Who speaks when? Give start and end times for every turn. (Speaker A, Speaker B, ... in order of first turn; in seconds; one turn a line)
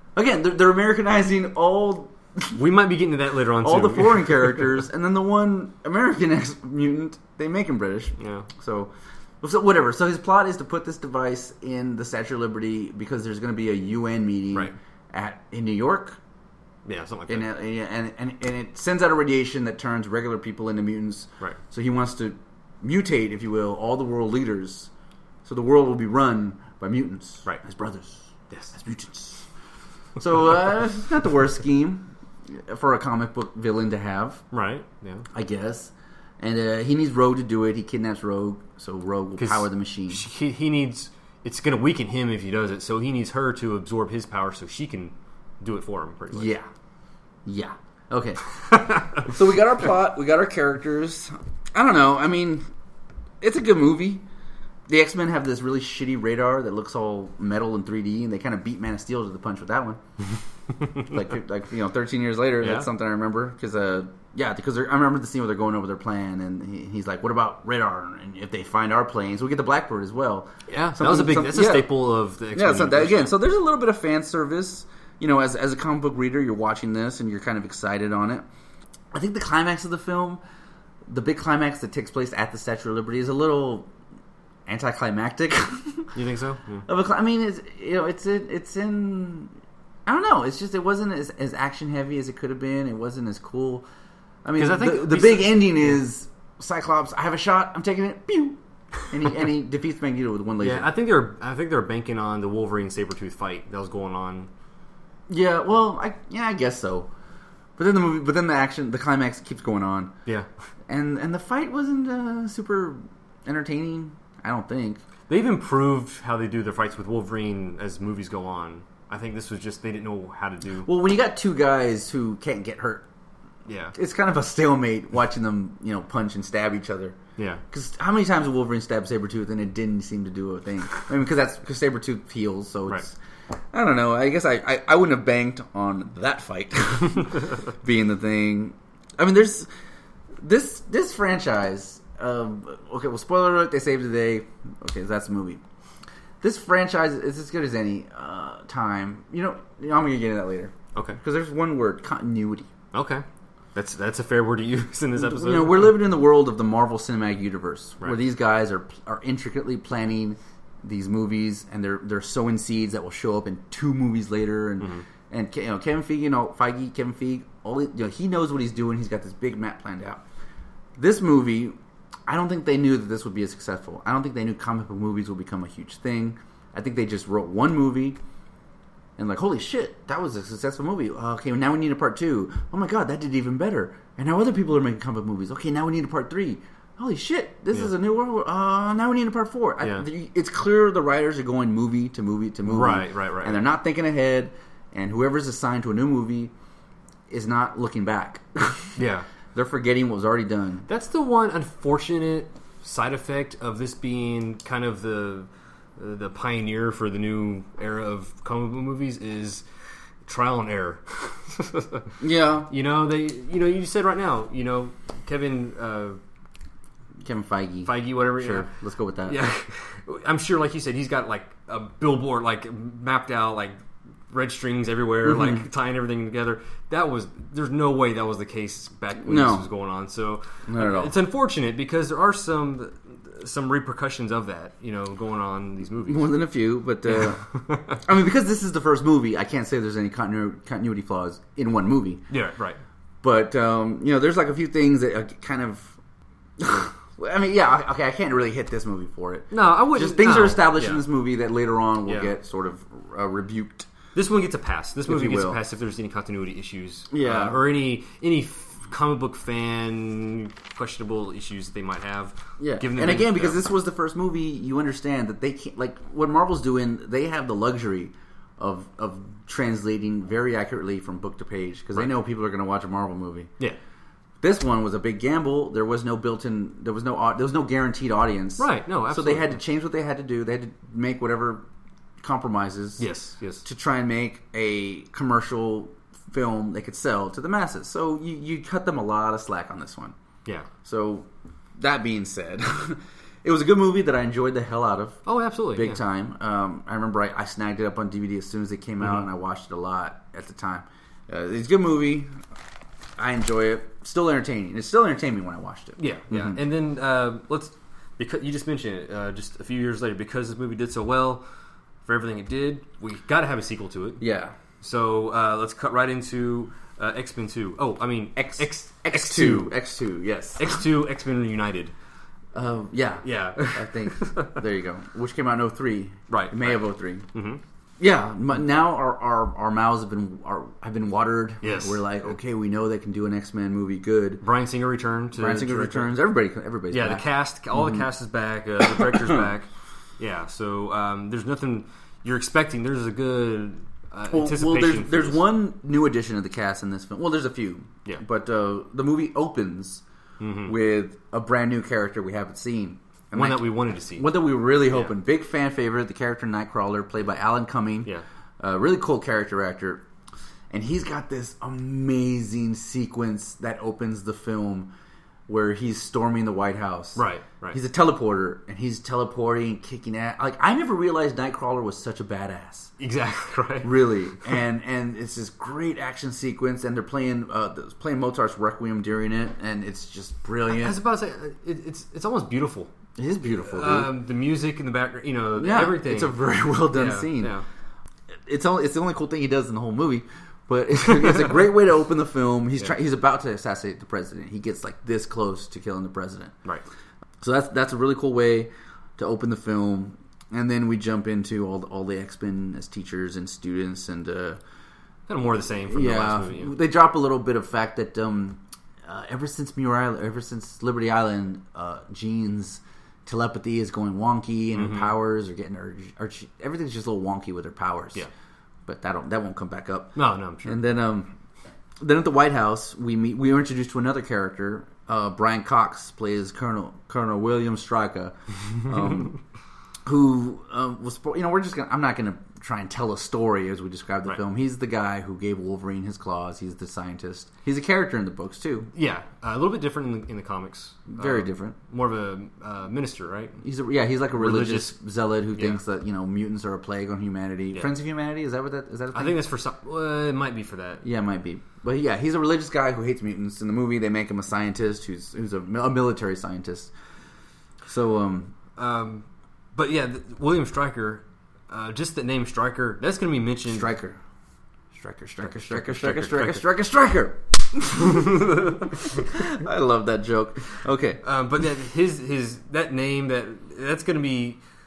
Speaker A: 0.1-2.6
Speaker B: 2.5-4.5
Speaker A: 3.6-16.2
Speaker B: 8.2-8.5
Speaker B: 16.9-17.5
Speaker A: 17.3-24.9
Speaker A: 25.4-29.4
Speaker A: 30.2-34.4
Speaker B: 34.5-35.2
Speaker A: 35.3-40.2
Speaker B: 39.4-46.5
Speaker A: 46.3-46.6
Speaker A: 47.4-52.6
Speaker A: 53.4-54.2
Speaker A: 54.9-60.0
Speaker A: 61.0-71.9
Speaker B: 62.6-62.9
Speaker B: 70.7-73.3
Speaker A: 72.5-78.5
Speaker A: 79.1-80.4
Speaker A: 81.1-83.9
Speaker A: 84.7-86.1
Speaker B: 86.1-86.9
Speaker A: 86.9-89.5
Speaker A: 90.0-93.8
Speaker A: 94.4-100.9
Speaker B: 94.5-95.9
Speaker B: 100.6-104.5
Speaker A: 105.3-107.1
Speaker A: 107.8-110.1
Speaker A: 110.9-115.0
Speaker B: 115.3-120.9
Speaker A: 120.8-123.0
Speaker B: 123.7-123.9
Speaker A: 123.9-127.2
Speaker B: 127.4-127.6
Speaker A: 127.7-133.2
Speaker A: 133.7-139.7
Speaker A: 140.4-145.6
Speaker A: 146.4-152.7
Speaker B: 150.9-151.2
Speaker B: 152.9-155.9
Speaker A: 155.2-170.2
Speaker B: 164.8-165.0
Speaker A: 171.0-178.2
Speaker A: 179.2-196.5
Speaker B: 189.8-190.1
Speaker B: 192.7-193.6
Speaker A: 197.3-199.0
Speaker B: 199.0-199.2
Speaker A: 199.5-200.9
Speaker B: 200.9-209.6
Speaker B: 210.2-212.1
Speaker A: 212.2-212.7
Speaker B: 212.7-216.2
Speaker A: 217.2-219.4
Speaker B: 217.8-218.7
Speaker B: 219.3-223.8
Speaker B: 224.3-236.3
Speaker A: 225.2-225.6
Speaker A: 229.2-229.7
Speaker A: 230.7-231.1
Speaker A: 236.0-237.4
Speaker B: 237.1-238.0
Speaker A: 237.9-242.2
Speaker B: 242.3-242.8
Speaker A: 243.2-245.9
Speaker A: 246.6-253.9
Speaker B: 249.5-251.0
Speaker B: 252.1-252.3
Speaker B: 254.1-263.6
Speaker A: 255.1-255.6
Speaker A: 257.1-257.6
Speaker A: 262.6-273.5
Speaker A: 274.4-281.6
Speaker B: 278.6-279.6
Speaker A: 282.2-283.1
Speaker B: 283.0-283.6
Speaker A: 283.6-290.1
Speaker A: 290.8-295.2
Speaker B: 295.2-296.0
Speaker A: 295.7-302.3
Speaker A: 303.2-306.6
Speaker B: 306.0-311.4
Speaker B: 312.0-314.2
Speaker A: 314.2-314.5
Speaker B: 314.8-319.8
Speaker A: 318.4-320.8
Speaker B: 320.6-321.9
Speaker A: 322.5-327.2
Speaker B: 323.2-324.6
Speaker B: 326.3-326.8
Speaker B: 327.3-327.6
Speaker A: 328.0-334.4
Speaker B: 331.6-332.1
Speaker B: 334.4-336.2
Speaker A: 335.3-338.0
Speaker B: 336.9-345.4
Speaker A: 344.3-350.0
Speaker B: 350.4-350.7
Speaker A: 350.6-360.0
Speaker B: 353.3-354.3
Speaker B: 354.9-355.1
Speaker A: 360.7-364.9
Speaker A: 365.5-372.9
Speaker B: 367.1-367.8
Speaker B: 373.0-373.9
Speaker A: 373.8-381.0
Speaker B: 380.7-382.9
Speaker A: 383.2-384.1
Speaker B: 383.6-386.4
Speaker A: 385.6-387.6
Speaker B: 386.9-387.6
Speaker A: 388.4-396.5
Speaker A: 397.4-404.6
Speaker B: 405.3-406.7
Speaker A: 405.9-418.2
Speaker B: 414.7-415.1
Speaker A: 418.9-421.3
Speaker B: 420.1-420.8
Speaker A: 422.0-429.4
Speaker A: 430.0-438.9
Speaker B: 438.9-443.6
Speaker A: 441.1-441.8
Speaker A: 443.6-449.4
Speaker B: 444.3-444.9
Speaker B: 445.5-445.8
Speaker B: 449.1-451.0
Speaker A: 451.0-456.9
Speaker A: 457.9-458.5
Speaker B: 458.8-463.9
Speaker A: 463.7-464.2
Speaker A: 464.9-471.2
Speaker B: 465.4-466.6
Speaker B: 471.2-474.6